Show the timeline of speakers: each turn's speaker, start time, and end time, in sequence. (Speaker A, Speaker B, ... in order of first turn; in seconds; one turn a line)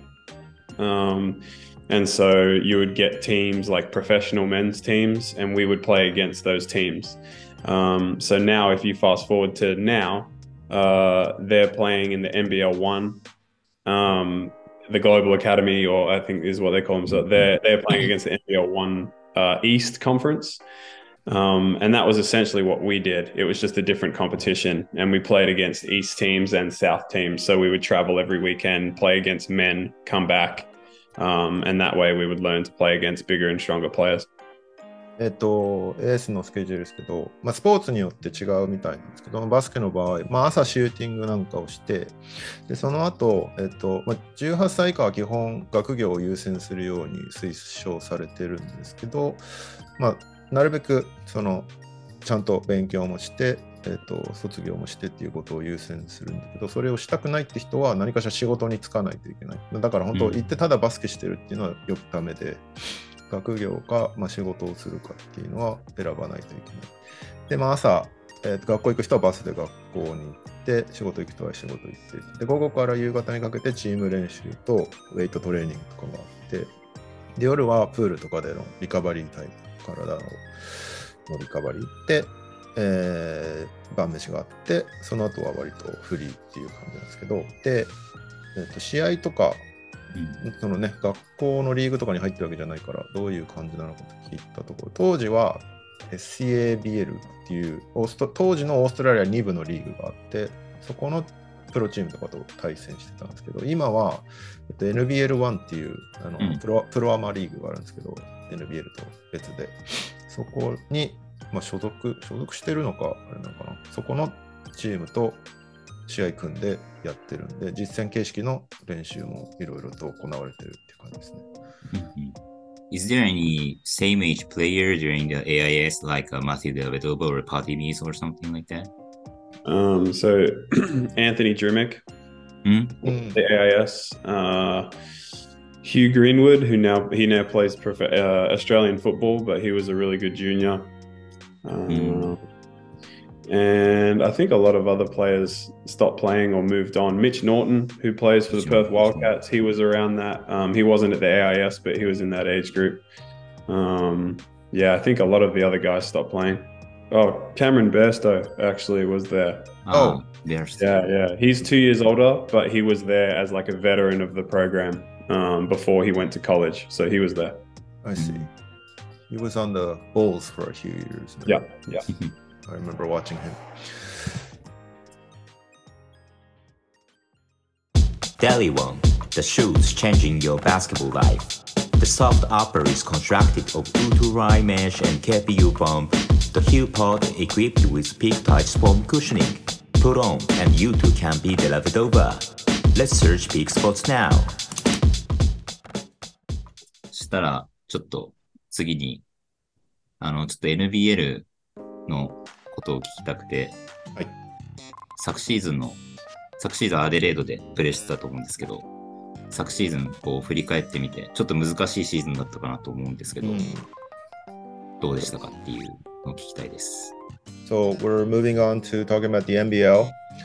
Speaker A: 0.8-13.2
Speaker A: 13.8-20.6
Speaker A: 21.3-34.3
Speaker B: 35.2-49.4
Speaker B: 50.0-51.7
Speaker B: 52.2-62.6
Speaker C: 60.1-60.4
Speaker B: 63.3-66.9
Speaker B: 67.5-76.7
Speaker B: 77.4-87.9
Speaker B: 88.5-89.7
Speaker C: 90.1-90.4
Speaker B: 90.4-115.4
Speaker B: 116.1-121.4
Speaker C: 121.9-122.4
Speaker C: 122.9-128.9
Speaker A: 129.7-132.0
Speaker C: 132.6-133.0
Speaker B: 133.0-133.4
Speaker A: 133.2-134.9
Speaker A: 135.8-140.9
Speaker A: 141.6-142.4
Speaker C: 141.9-142.3
Speaker A: 143.5-153.0
Speaker C: 148.5-149.3
Speaker A: 153.7-159.8
Speaker C: 159.9-161.1
Speaker B: 159.9-160.2
Speaker A: 160.8-167.6
Speaker B: 168.0-168.5
Speaker C: 168.2-168.4
Speaker B: 169.3-171.7
Speaker A: 171.4-172.1
Speaker B: 172.6-174.2
Speaker D: 178.4-194.6
Speaker C: 197.1-199.2
Speaker C: 200.2-201.5
Speaker C: 202.1-203.8
Speaker C: 205.2-206.0
Speaker C: 206.6-208.9
Speaker C: 209.5-213.7
Speaker B: 213.4-213.9
Speaker C: 215.0-217.1
Speaker B: 217.7-220.2